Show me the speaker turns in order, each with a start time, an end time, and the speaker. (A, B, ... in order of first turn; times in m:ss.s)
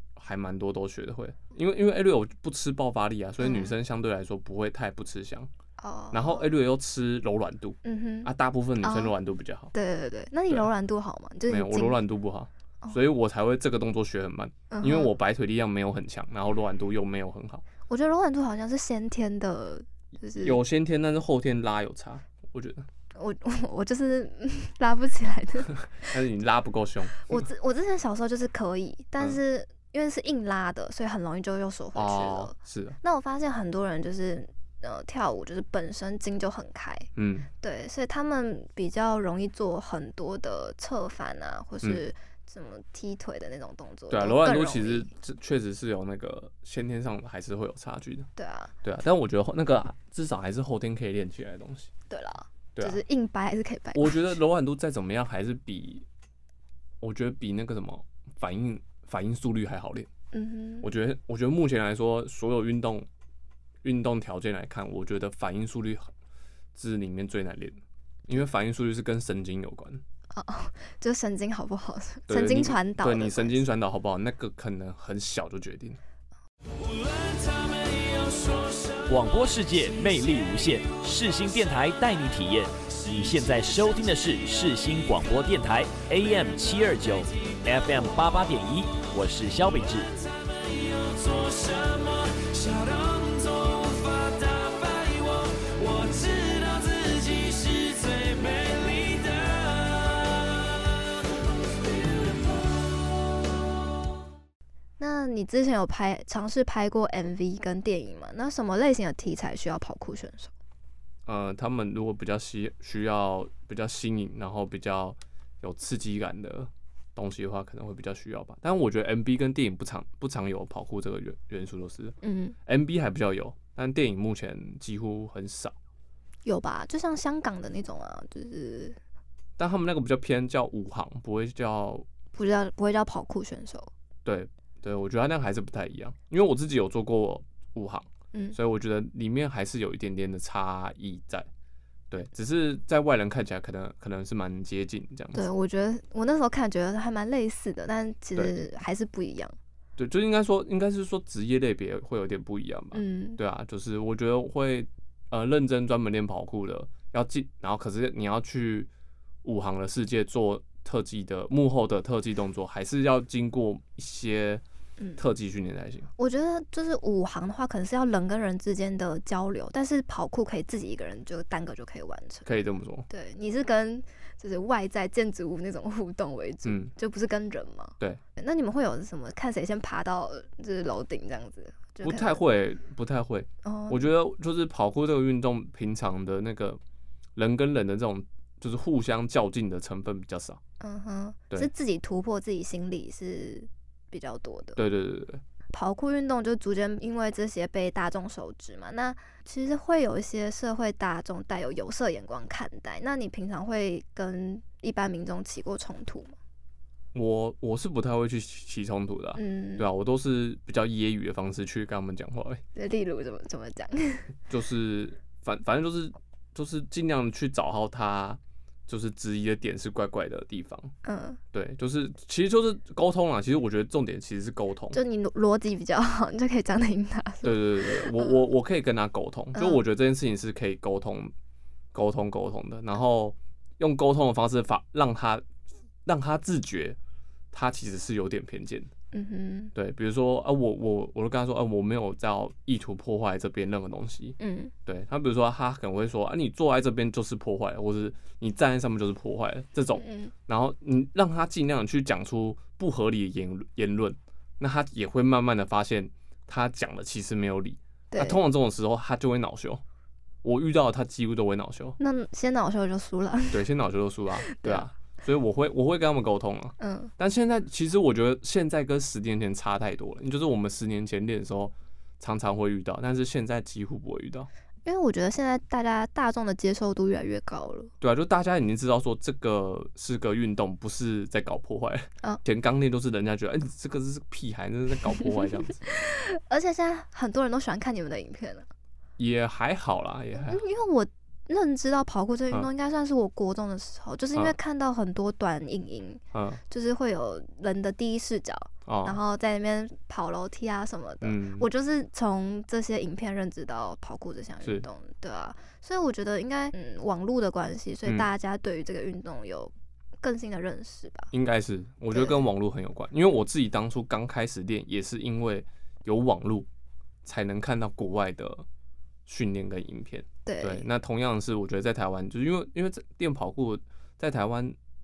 0:00.2-0:05.5 A
0:03.4-0:03.7 B
0:05.8-0:06.6 B
0:06.1-0:09.7 A
0:07.8-0:09.2 B
0:09.7-0:12.0 B
0:11.5-0:17.6 A
0:14.7-0:15.1 B
0:17.9-0:20.6 B
0:20.4-0:22.9 A
0:23.2-0:26.2 B
0:26.1-0:27.5 A
0:27.2-0:37.1 B
0:32.0-0:33.0 A
0:37.2-0:37.5 A
0:37.6-0:45.1 B
0:44.1-0:48.3 A
0:48.4-0:48.7 B
0:48.8-0:51.9 A
0:52.1-0:54.3 B
0:52.8-0:53.0 A
0:54.0-0:56.1 A
0:57.0-1:00.1 A
1:00.3-1:00.9 B
1:00.8-1:03.1 A
1:03.8-1:06.1 A
1:06.8-1:10.0 A
1:10.3-1:13.6 B
1:12.3-1:16.0 A
1:16.8-1:40.6 C
1:45.0-1:50.5 B
1:51.3-2:05.8 A
2:02.2-2:02.6 B
2:06.4-2:09.0 B
2:09.6-2:12.1 A
2:12.4-2:13.9 B
2:14.2-2:21.5 A
2:22.1-2:25.5 A
2:25.3-2:29.6 B
2:30.0-2:38.9 A
2:32.9-2:33.4 B
2:39.4-2:44.6 A
2:45.2-2:46.1 A
2:46.2-2:52.5 B
2:52.4-2:53.1 A
2:53.1-3:02.4 B
2:56.6-2:56.9 A
3:02.0-3:06.8 A
3:03.6-3:04.1 B
3:07.4-3:10.6 A
3:10.8-3:14.8 B
3:14.8-3:15.4 A
3:15.7-3:26.4 B
3:27.1-3:32.6 A
3:29.4-3:29.9 B
3:32.8-3:34.3 B
3:34.5-3:40.9 A
3:41.0-3:41.4 B
3:41.5-3:45.0 A
3:44.9-3:48.4 B
3:47.4-3:51.3 A
3:49.6-3:49.8 B
3:51.9-3:55.5 A
3:56.1-3:57.0 A
3:57.5-3:58.9 A
3:59.1-3:59.7 B
3:59.8-4:19.8 A
4:04.4-4:04.7 B
4:10.0-4:10.3 B
4:18.1-4:18.4 B
4:20.4-4:22.0 A
4:22.0-4:23.7 B
4:23.5-4:34.5 A
4:24.4-4:24.9 B
4:26.8-4:27.1 B
4:34.8-4:37.9 B
4:38.0-4:45.8 A
4:45.9-4:48.7 B
4:49.2-4:50.6 A
4:50.4-5:11.3 B
4:56.3-4:56.6 A
4:58.9-4:59.2 A
5:01.2-5:01.7 A
5:11.3-5:16.7 A
5:12.1-5:12.4 B
5:17.2-5:18.6 A
5:19.3-5:24.8 A
5:20.5-5:20.9 B